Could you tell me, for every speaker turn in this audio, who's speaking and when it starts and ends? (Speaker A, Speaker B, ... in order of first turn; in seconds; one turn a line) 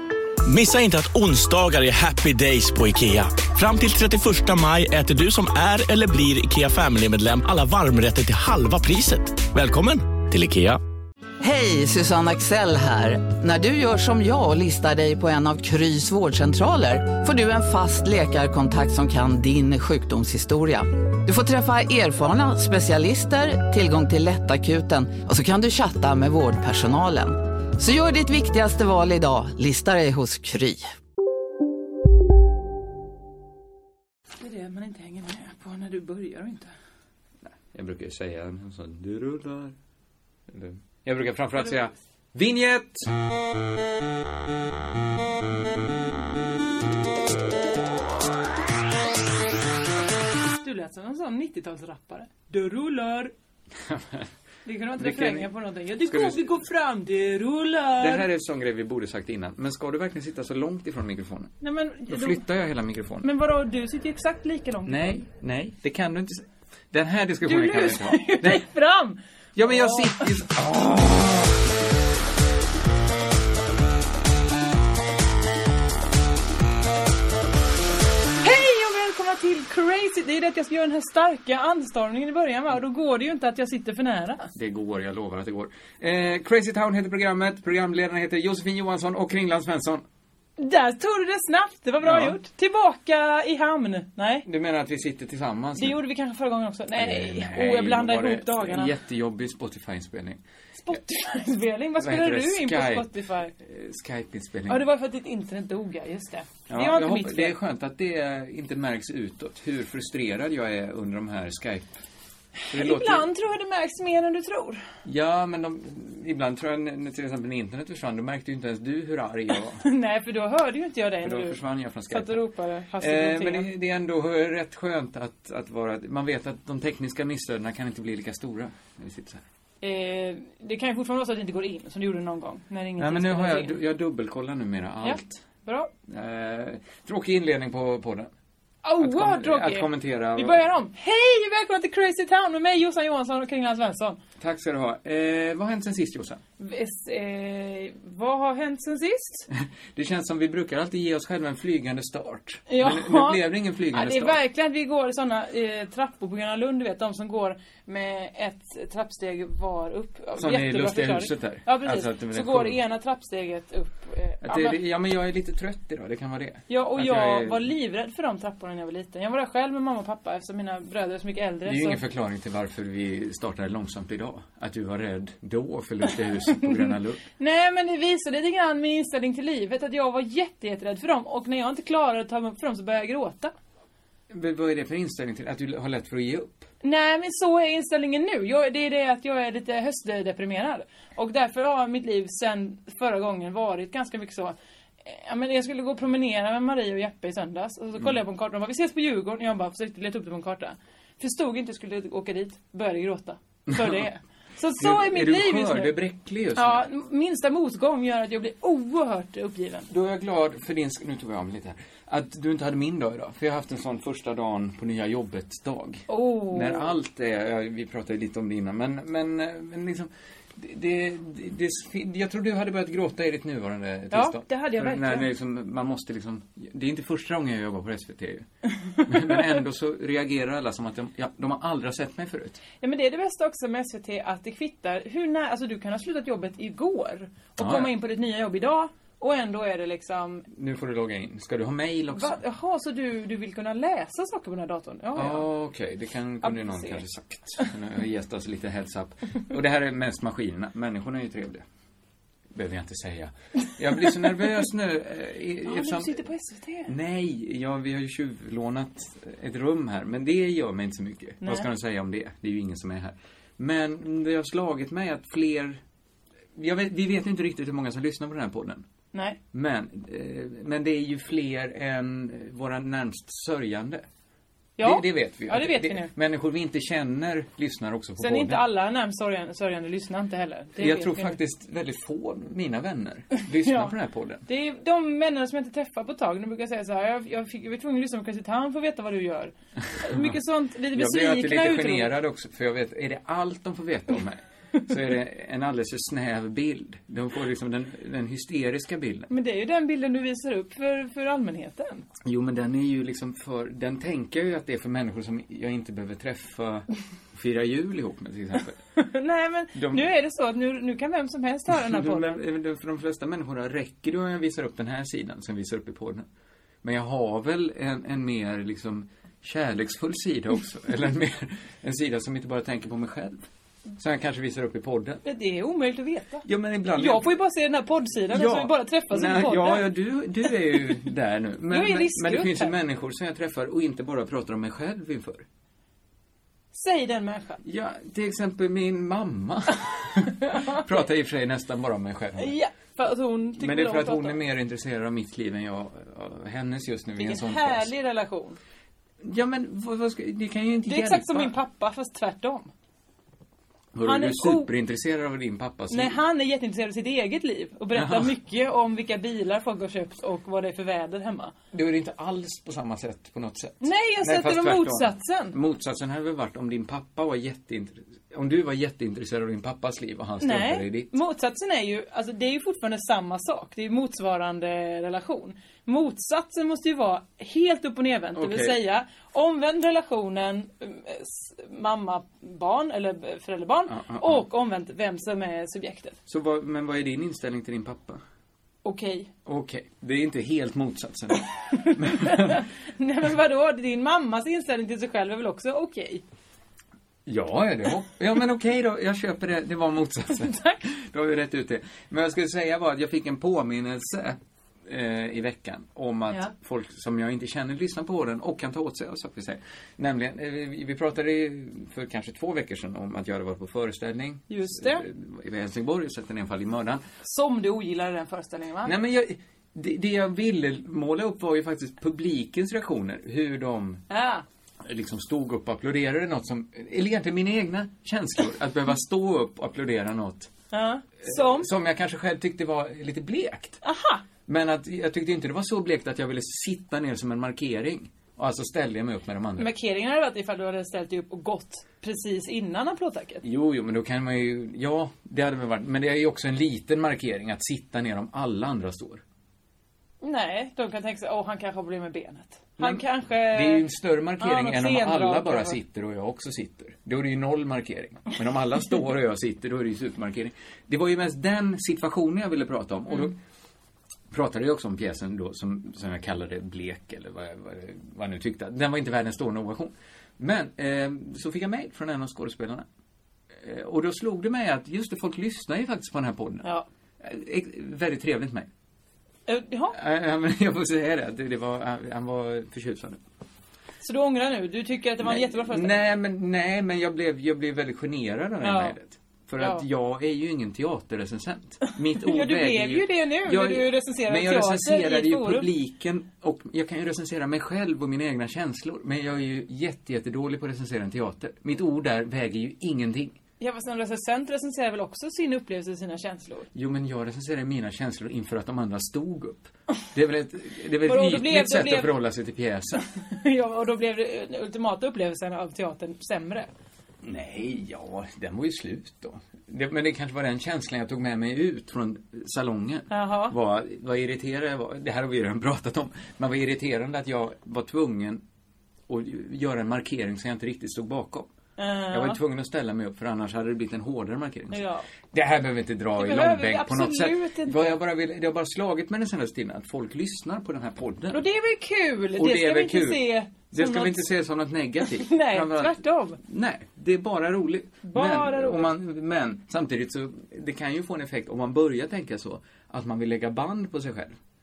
Speaker A: 0.5-10.8
Speaker B: 11.4-30.9
Speaker C: 34.4-36.7
Speaker D: 37.4-39.8
Speaker D: 40.5-43.1
Speaker C: 50.5-53.3
Speaker D: 53.8-54.3
Speaker C: 54.6-58.3
Speaker D: 55.0-55.5
Speaker D: 56.0-56.5
Speaker D: 58.0-61.5
Speaker C: 61.6-62.4
Speaker D: 62.1-63.3
Speaker C: 63.2-65.2
Speaker D: 64.9-68.7
Speaker C: 67.4-70.3
Speaker D: 69.5-71.5
Speaker C: 78.4-84.5
Speaker D: 84.5-90.0
Speaker C: 90.6-94.5
Speaker D: 92.0-92.4
Speaker D: 94.5-96.0
Speaker C: 95.8-98.9
Speaker D: 97.0-101.0
Speaker C: 100.8-103.5
Speaker D: 102.0-104.8
Speaker C: 104.7-107.6
Speaker D: 106.7-111.9
Speaker C: 112.6-114.8
Speaker D: 112.7-113.3
Speaker D: 115.0-119.8
Speaker C: 119.8-123.7
Speaker D: 121.2-122.4
Speaker D: 123.0-129.4
Speaker C: 129.8-133.8
Speaker D: 133.0-135.4
Speaker C: 135.0-135.9
Speaker D: 136.1-138.3
Speaker C: 138.8-144.2
Speaker D: 139.0-140.6
Speaker D: 144.4-146.4
Speaker C: 146.6-149.5
Speaker D: 149.5-154.4
Speaker C: 152.7-164.8
Speaker D: 160.4-162.8
Speaker D: 164.4-167.7
Speaker C: 166.7-172.0
Speaker D: 171.7-177.2
Speaker C: 176.5-183.5
Speaker D: 184.3-186.7
Speaker C: 186.8-205.9
Speaker D: 203.7-204.0
Speaker D: 204.8-206.9
Speaker C: 206.6-209.9
Speaker D: 209.9-228.5
Speaker C: 216.1-216.9
Speaker C: 224.1-225.3
Speaker C: 228.9-229.4
Speaker D: 229.1-232.6
Speaker C: 232.8-240.5
Speaker D: 237.6-237.9
Speaker D: 240.5-242.4
Speaker C: 242.1-245.5
Speaker D: 245.1-251.7
Speaker C: 246.4-247.0
Speaker D: 252.5-256.2
Speaker C: 255.7-256.9
Speaker D: 256.9-265.8
Speaker C: 261.4-261.7
Speaker D: 266.6-268.9
Speaker C: 269.1-269.4
Speaker D: 269.5-274.1
Speaker C: 274.8-276.1
Speaker D: 274.8-278.6
Speaker C: 278.2-281.4
Speaker D: 280.8-284.4
Speaker C: 283.6-283.9
Speaker C: 284.5-292.1
Speaker D: 290.0-290.4
Speaker D: 290.9-299.3
Speaker C: 299.3-302.1
Speaker D: 302.2-308.8
Speaker C: 309.0-312.4
Speaker D: 309.7-310.1
Speaker D: 311.7-316.3
Speaker D: 316.8-325.2
Speaker C: 325.3-329.9
Speaker D: 326.4-327.3
Speaker D: 328.3-335.4
Speaker C: 331.7-332.7
Speaker C: 336.7-337.6
Speaker D: 337.6-342.5
Speaker C: 340.4-340.9
Speaker C: 342.4-344.4
Speaker D: 343.6-347.9
Speaker C: 347.2-348.6
Speaker D: 349.2-351.6
Speaker C: 350.9-352.7
Speaker D: 353.9-356.2
Speaker C: 354.0-354.7
Speaker C: 355.9-361.5
Speaker D: 357.9-358.3
Speaker D: 361.7-371.1
Speaker C: 363.8-365.6
Speaker C: 370.4-386.2
Speaker D: 378.4-378.8
Speaker D: 383.9-384.4
Speaker D: 386.3-388.2
Speaker C: 388.8-389.3
Speaker D: 389.5-392.6
Speaker C: 391.7-396.2
Speaker D: 397.3-417.0
Speaker C: 400.4-400.8
Speaker C: 414.5-415.1
Speaker C: 417.2-418.9
Speaker D: 418.9-424.0
Speaker C: 424.1-424.4
Speaker D: 424.8-430.5
Speaker C: 430.7-431.7
Speaker D: 431.2-433.8
Speaker C: 433.8-434.2
Speaker D: 434.5-439.7
Speaker C: 439.6-443.4
Speaker D: 443.4-449.2
Speaker C: 450.2-453.9
Speaker D: 452.8-463.4
Speaker C: 454.4-455.8
Speaker D: 464.3-472.9
Speaker D: 473.6-476.7
Speaker D: 477.2-478.7
Speaker C: 479.5-480.0
Speaker D: 479.9-483.2
Speaker C: 484.0-486.0
Speaker D: 485.2-503.4
Speaker C: 488.6-488.9
Speaker C: 489.6-489.9
Speaker C: 492.1-495.7
Speaker C: 503.6-506.7
Speaker D: 506.7-513.0
Speaker C: 511.0-512.2
Speaker C: 513.2-516.7
Speaker D: 517.2-528.4
Speaker C: 523.1-523.5
Speaker D: 529.1-531.5
Speaker C: 531.8-532.4
Speaker D: 532.1-541.5
Speaker C: 534.7-535.1
Speaker C: 536.2-537.9
Speaker C: 541.3-544.3
Speaker D: 542.4-554.4
Speaker C: 545.1-546.4
Speaker C: 548.1-548.9